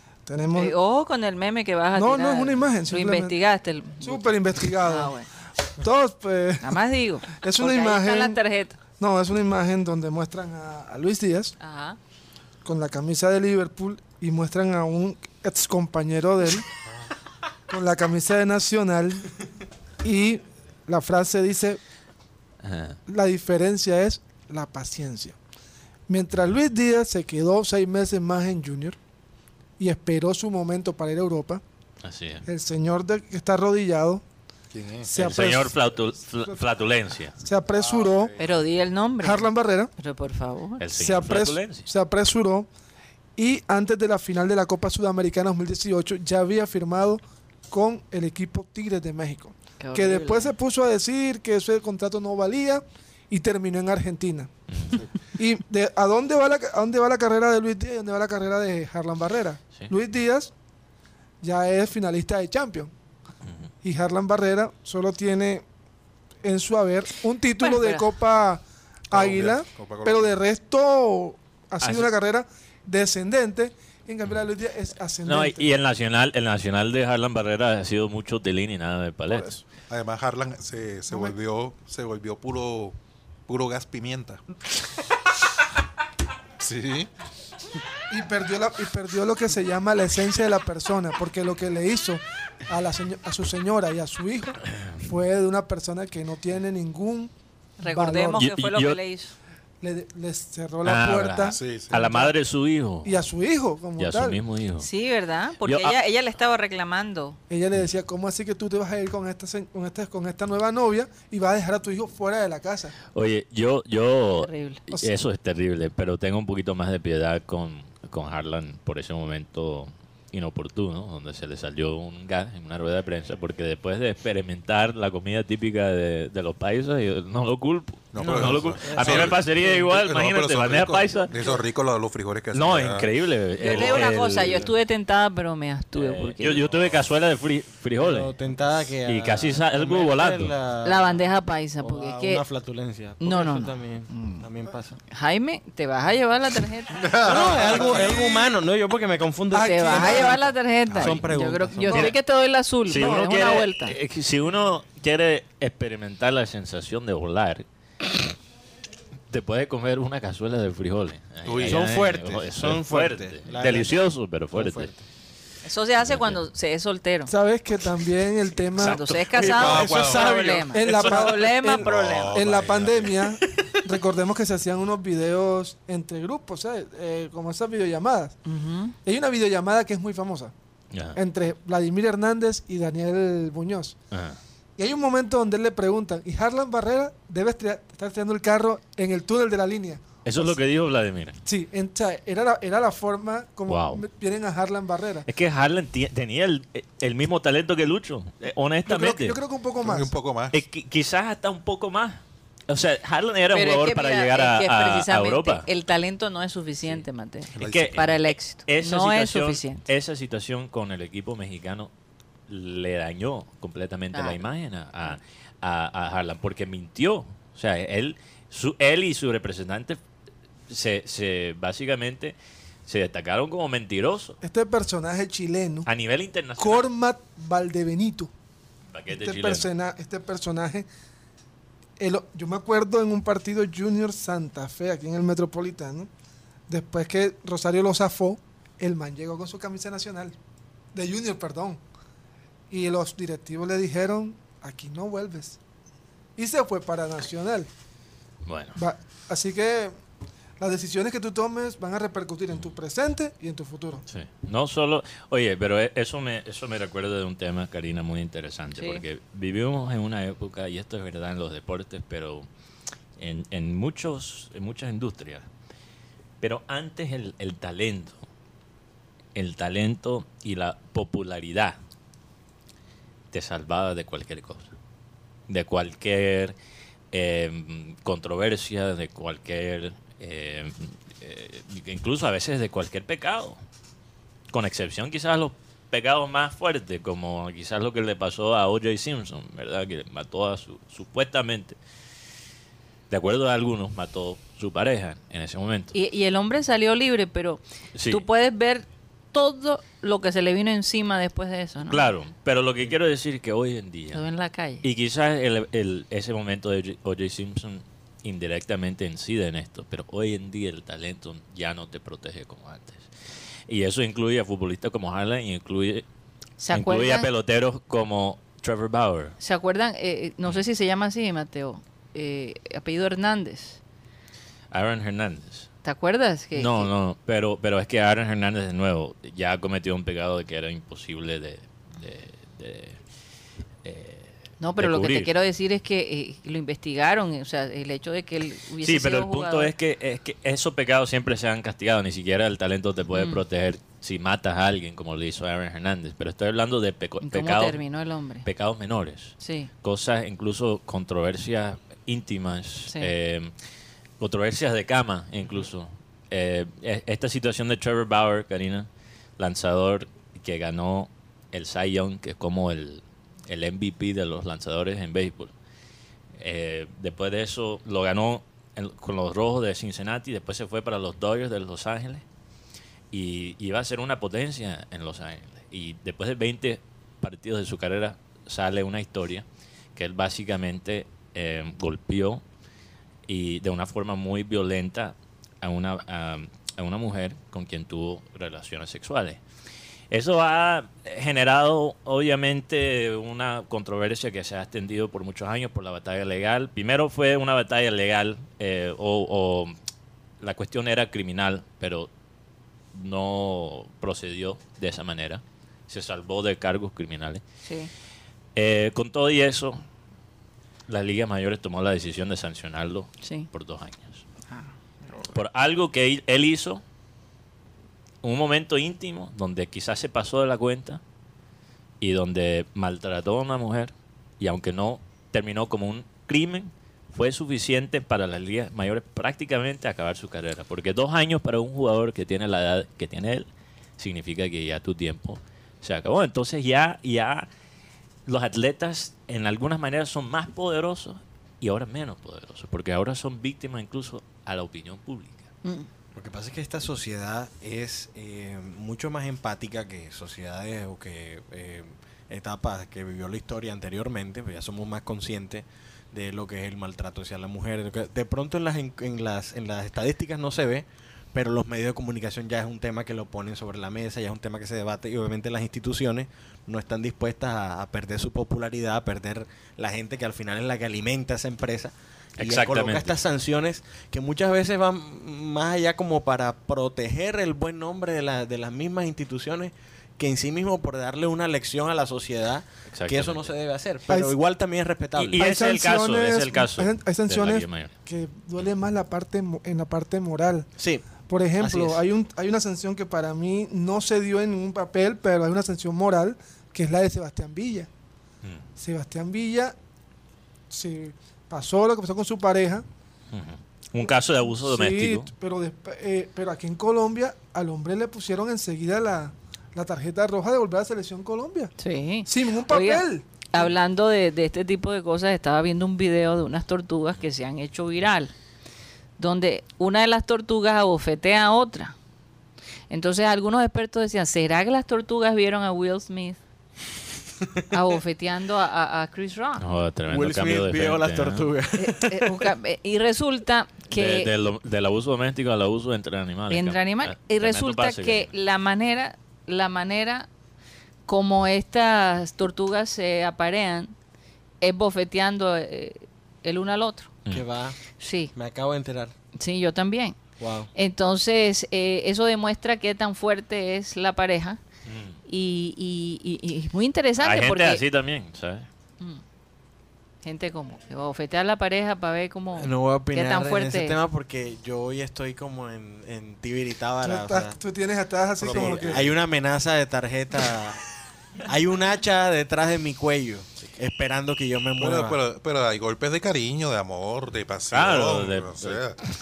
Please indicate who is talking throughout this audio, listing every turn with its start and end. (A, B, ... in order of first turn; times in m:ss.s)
0:00.2-0:00.7 A
0:00.5-0:05.3 B
0:01.9-0:03.4 A
0:04.0-0:05.1 A
0:05.8-0:08.4 A
0:06.6-0:08.8 B
0:09.0-0:11.5 A
0:11.6-0:12.0 B
0:12.6-0:16.7 A
0:17.7-0:19.4 A
0:20.0-0:21.8 A
0:22.6-0:23.0 C
0:23.1-0:25.4 A
0:26.1-0:29.0 A
0:29.8-0:31.6 A
0:32.0-0:32.4 C
0:32.4-0:34.2 A
0:34.7-0:35.1 D
0:35.0-0:35.9 A
0:35.2-0:37.4 C
0:37.4-0:38.3 A
0:37.7-0:38.6 D
0:38.4-0:40.8 B
0:39.2-0:39.9 A
0:40.8-0:41.9 C
0:40.9-0:42.7 A
0:43.4-0:54.5 A
0:49.8-0:50.5 B
0:54.7-0:55.0 C
0:55.4-1:00.5 A
1:01.4-1:02.9 A
1:03.8-1:05.6 A
1:06.4-1:15.7 A
1:07.6-1:08.1 B
1:09.1-1:10.4 D
1:11.8-1:12.1 C
1:15.2-1:19.5 C
1:19.3-1:19.6 A
1:19.9-1:23.0 D
1:23.5-1:24.4 D
1:26.6-1:27.1 D
1:28.1-1:37.3 A
1:37.8-1:39.3 B
1:37.8-1:38.5 A
1:38.3-1:39.0 C
1:39.8-1:42.3 A
1:40.8-1:43.2 C
1:41.5-1:42.0 D
1:43.0-1:44.4 A
1:44.0-1:44.9 C
1:44.8-1:47.4 B
1:45.6-1:45.9 C
1:47.5-1:52.9 A
1:53.1-2:11.3 C
1:54.4-1:54.8 B
2:08.1-2:13.1 D
2:08.2-2:09.7 E
2:12.5-2:14.7 C
2:13.6-2:16.6 B
2:13.7-2:14.0 E
2:15.9-2:18.3 C
2:18.0-2:21.3 E
2:19.0-2:20.5 C
2:20.8-2:22.4 B
2:21.8-2:25.0 E
2:23.2-2:24.4 B
2:25.1-2:27.0 B
2:26.9-2:28.4 D
2:27.2-2:30.4 E
2:29.5-2:30.4 A
2:29.5-2:34.0 B
2:30.9-2:31.2 D
2:31.0-2:32.1 E
2:32.9-2:37.6 C
2:39.3-2:44.9 C
2:41.4-2:41.9 D
2:41.6-2:44.0 E
2:44.5-2:45.0 E
2:45.6-2:47.3 B
2:46.0-2:46.4 C
2:47.3-2:49.8 A
2:48.8-2:52.3 B
2:48.8-2:49.2 C
2:49.3-2:50.8 E
2:49.4-2:50.3 D
2:50.7-2:58.4 A
2:50.9-2:53.4 D
2:58.4-2:59.0 B
2:59.0-3:00.5 A
3:00.9-3:01.2 C
3:01.1-3:04.0 A
3:04.1-3:04.4 C
3:04.8-3:10.6 A
3:10.2-3:11.4 C
3:11.4-3:15.3 A
3:13.7-3:14.0 C
3:15.3-3:19.4 C
3:18.8-3:20.1 A
3:19.8-3:20.6 D
3:20.5-3:25.7 C
3:23.5-3:29.8 B
3:27.6-3:28.1 D
3:27.6-3:31.9 C
3:32.5-3:40.0 C
3:34.1-3:34.4 B
3:40.7-3:42.3 C
3:42.8-3:44.4 C
3:44.4-3:45.9 A
3:45.8-3:46.9 C
3:46.6-3:48.3 A
3:48.9-3:49.7 C
3:49.1-3:50.8 A
3:52.0-3:56.1 A
3:56.7-4:00.4 A
4:00.9-4:01.8 A
4:02.7-4:05.6 A
4:06.4-4:07.7 A
4:08.4-4:08.8 C
4:08.8-4:09.9 A
4:10.6-4:14.0 A
4:14.1-4:22.5 C
4:18.8-4:19.0 B
4:23.2-4:25.4 C
4:26.4-4:28.2 C
4:29.3-4:31.8 C
4:33.3-4:34.7 C
4:35.5-4:36.5 C
4:37.1-4:43.6 C
4:44.5-4:51.8 C
4:53.1-4:55.9 C
4:55.9-5:02.1 B
4:57.9-4:58.2 C
5:01.9-5:04.2 C
5:04.1-5:04.8 B
5:04.8-5:13.1 C
5:13.7-5:16.0 C
5:16.6-5:17.3 B
5:16.7-5:19.4 C
5:19.4-5:23.8 B
5:24.7-5:25.7 C
5:25.8-5:26.9 B
5:26.5-5:33.0 C
5:33.8-5:35.3 C
5:34.6-5:39.7 B
5:38.8-5:47.8 C
5:43.1-5:43.4 B
5:47.2-5:48.4 B
5:48.4-5:53.5 C
5:49.4-5:49.7 B
5:54.2-6:05.5 C
6:06.4-6:12.2 C
6:13.1-6:19.4 C
6:20.0-6:22.4 C
6:23.3-6:29.4 C
6:30.1-6:39.7 C
6:40.4-6:42.1 C
6:42.9-6:47.4 C
6:47.6-6:47.9 B
6:48.6-6:49.8 C
6:50.9-6:54.2 C
6:53.2-6:53.5 B
6:55.3-6:56.8 C
6:58.2-7:01.0 C
7:02.0-7:17.5 C
7:18.2-7:25.5 C
7:26.1-8:05.4 E
7:52.4-7:53.2 C
8:02.9-8:03.5 C
8:04.1-8:04.3 A
8:05.2-8:07.9 C
8:05.3-8:10.7 A
8:10.8-8:11.0 E
8:11.2-8:17.9 A
8:11.6-8:12.0 E
8:18.8-8:19.7 A
8:20.7-8:22.8 A
8:23.3-8:25.3 C
8:24.0-8:31.7 A
8:31.8-8:38.3 B
8:32.2-8:33.2 A
8:39.2-8:41.9 B
8:42.9-8:46.4 B
8:47.7-8:49.6 B
8:49.6-8:51.5 C
8:50.1-8:52.5 E
8:51.8-8:54.3 B
8:53.9-8:58.3 C
8:56.5-9:00.3 B
9:01.1-9:03.9 B
9:04.6-9:07.1 B
9:07.3-9:07.8 E
9:08.0-9:08.3 B
9:08.3-9:09.1 E
9:09.4-9:10.2 B
9:10.4-9:10.7 E
9:10.7-9:14.6 B
9:14.8-9:15.2 C
9:15.2-9:17.8 B
9:17.2-9:18.7 C
9:20.2-9:24.0 B
9:22.6-9:27.6 E
9:27.0-9:29.1 A
9:28.4-9:29.1 D
9:28.5-9:30.8 E
9:31.4-9:35.2 E
9:34.8-9:39.0 D
9:37.7-9:38.8 C